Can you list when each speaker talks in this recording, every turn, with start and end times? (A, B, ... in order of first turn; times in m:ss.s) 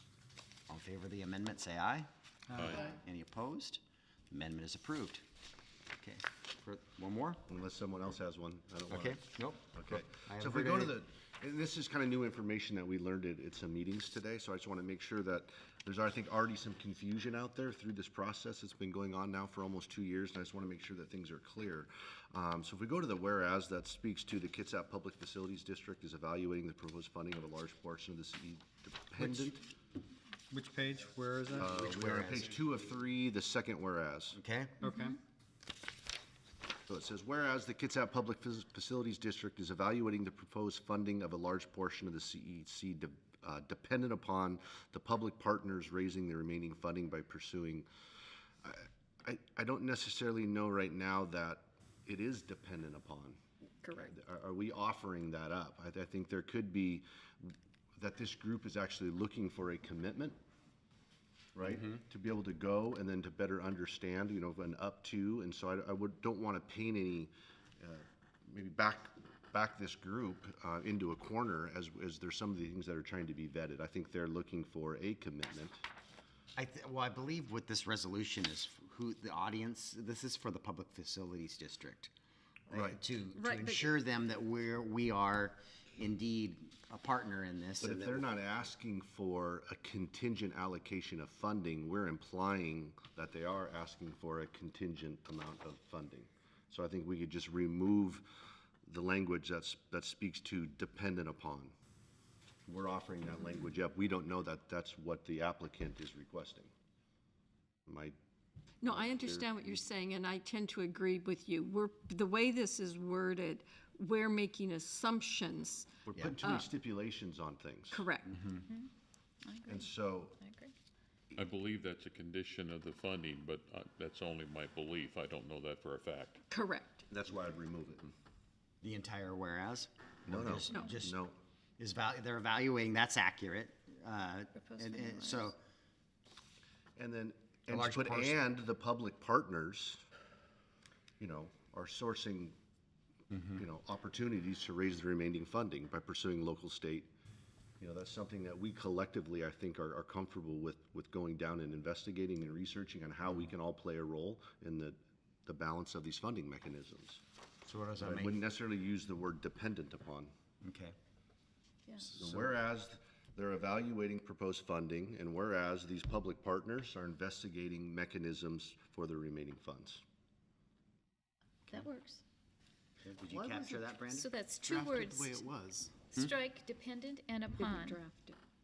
0:00.7-0:02.1 A
0:02.5-0:02.8 B
0:02.6-0:02.8 C
0:02.7-0:05.2 A
0:06.0-0:07.4 A
0:07.5-0:29.6 D
0:08.9-0:11.0 A
0:29.2-0:29.5 B
0:30.5-0:31.9 B
0:31.5-0:34.4 D
0:31.6-0:32.5 A
0:34.3-0:35.2 A
0:34.8-0:35.2 E
0:36.9-0:47.9 D
0:48.6-0:53.4 D
0:53.8-0:54.1 F
0:54.0-1:00.4 D
1:01.5-1:15.8 D
1:16.6-1:22.1 A
1:22.7-1:23.0 D
1:22.7-1:28.2 A
1:23.4-1:23.9 F
1:27.8-1:38.2 D
1:38.8-1:41.7 D
1:42.6-1:46.7 D
1:47.8-1:48.2 D
1:48.8-1:55.9 F
1:48.8-1:49.8 D
1:56.1-1:58.1 D
1:56.4-1:56.7 F
1:57.9-1:58.3 F
1:58.5-1:58.9 E
1:59.4-2:00.7 E
1:59.7-2:00.4 D
2:01.4-2:06.4 C
2:06.5-2:07.0 F
2:07.1-2:08.1 D
2:08.8-2:11.2 A
2:10.3-2:11.4 D
2:11.8-2:15.6 A
2:14.5-2:15.5 E
2:17.0-2:20.0 D
2:17.7-2:18.4 A
2:21.2-2:22.6 D
2:23.5-2:27.1 D
2:27.8-2:37.2 D
2:37.6-2:38.4 A
2:38.0-2:40.3 D
2:40.6-2:40.9 A
2:42.0-2:42.5 A
2:42.2-2:50.0 D
2:51.7-2:52.2 E
2:53.0-2:56.3 A
2:53.6-2:55.5 E
2:56.1-2:58.0 E
2:57.5-2:58.4 F